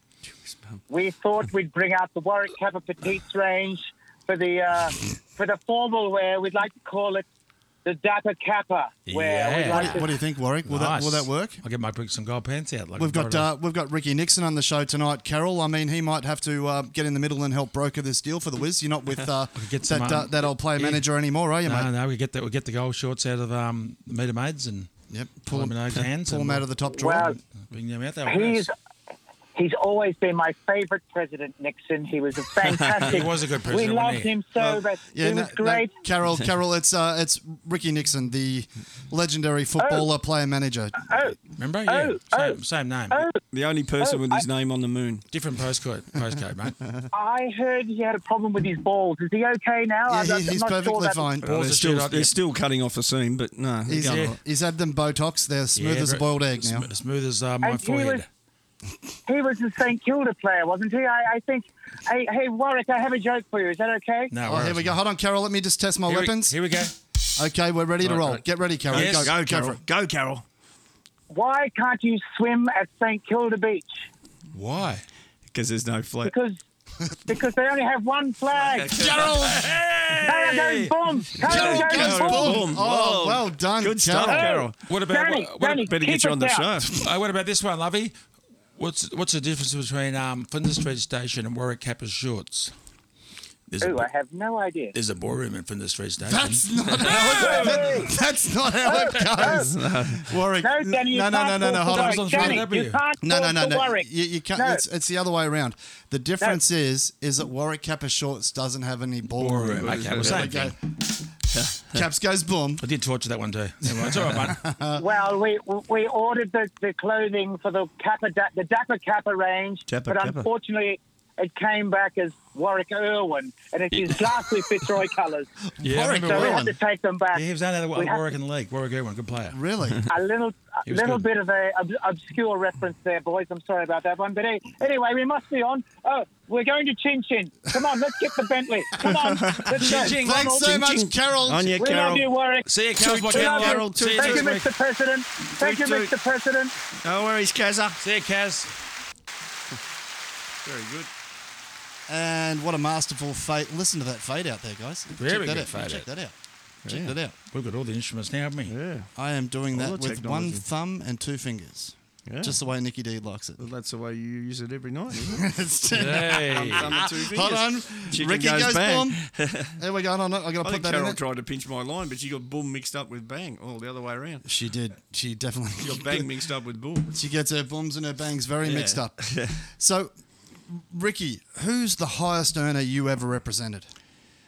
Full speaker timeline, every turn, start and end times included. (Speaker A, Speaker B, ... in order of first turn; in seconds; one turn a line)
Speaker A: 0.5-0.8
Speaker B: 0.9-7.2
Speaker B: 7.8-10.1
Speaker C: 9.1-10.1
Speaker D: 9.7-11.6
Speaker C: 10.7-13.5
Speaker D: 13.0-21.9
Speaker C: 19.5-21.1
Speaker C: 21.6-24.9
Speaker D: 25.1-27.4
Speaker C: 25.5-26.6
Speaker B: 26.9-27.4
Speaker C: 27.7-28.7
Speaker B: 28.3-28.7
Speaker B: 29.5-35.9
Speaker C: 33.0-34.3
Speaker A: 34.5-34.8
Speaker D: 35.1-41.1
Speaker B: 39.8-40.0
Speaker B: 41.0-42.6
Speaker C: 41.6-43.2
Speaker B: 43.1-43.4
Speaker A: 43.5-45.2
Speaker B: 44.0-44.4
Speaker C: 45.3-46.8
Speaker B: 47.1-51.3
Speaker D: 50.1-51.5
Speaker A: 51.4-54.4
Speaker C: 51.4-52.3
Speaker D: 53.9-56.9
Speaker C: 54.0-54.4
Speaker C: 55.7-58.2
Speaker B: 57.6-58.2
Speaker B: 59.2-64.3
Speaker C: 64.3-65.0
Speaker D: 64.4-66.5
Speaker C: 66.1-66.9
Speaker D: 67.3-69.8
Speaker A: 68.0-70.4
Speaker C: 68.9-69.3
Speaker B: 71.3-74.0
Speaker C: 74.5-75.0
Speaker A: 75.5-76.3
Speaker B: 76.2-76.6
Speaker B: 77.2-79.0
Speaker A: 78.5-84.8
Speaker D: 79.0-79.7
Speaker B: 80.2-82.6
Speaker D: 81.4-84.5
Speaker B: 84.2-86.7
Speaker C: 84.8-85.8
Speaker A: 85.6-87.0
Speaker C: 86.9-88.1
Speaker C: 88.8-92.7
Speaker C: 93.7-94.1
Speaker B: 93.8-94.9
Speaker C: 94.9-97.8
Speaker D: 96.2-102.6
Speaker A: 97.0-97.3
Speaker B: 97.1-98.1
Speaker B: 98.8-99.7
Speaker A: 99.4-100.4
Speaker B: 100.6-104.8
Speaker C: 101.8-103.0
Speaker D: 103.2-110.8
Speaker C: 109.3-110.7
Speaker A: 109.8-110.6
Speaker A: 111.5-112.0
Speaker D: 111.8-112.8
Speaker C: 112.8-114.6
Speaker D: 114.4-115.0
Speaker B: 115.0-125.5
Speaker A: 119.9-120.5
Speaker C: 125.8-126.7
Speaker D: 125.8-126.7
Speaker B: 126.1-128.2
Speaker C: 127.3-129.6
Speaker D: 129.5-130.0
Speaker B: 130.1-140.7
Speaker C: 130.9-131.2
Speaker A: 139.0-142.2
Speaker D: 139.7-141.7
Speaker C: 139.8-140.2
Speaker B: 141.8-142.7
Speaker C: 142.7-144.7
Speaker A: 142.9-144.6
Speaker B: 143.2-146.7
Speaker A: 145.6-146.1
Speaker A: 147.0-148.0
Speaker C: 148.0-148.7
Speaker A: 150.6-151.1
Speaker D: 152.1-156.3
Speaker C: 155.2-156.1
Speaker D: 156.8-157.3
Speaker A: 156.8-157.2
Speaker C: 157.5-158.7
Speaker A: 158.7-159.1
Speaker D: 159.2-163.6
Speaker A: 159.7-160.6
Speaker A: 162.3-162.5
Speaker A: 163.6-165.5
Speaker D: 165.2-171.2
Speaker C: 165.9-166.9
Speaker A: 166.2-169.8
Speaker A: 170.6-174.4
Speaker D: 174.4-176.3
Speaker A: 175.8-177.2
Speaker D: 177.1-180.1
Speaker A: 178.6-179.6
Speaker D: 180.7-183.9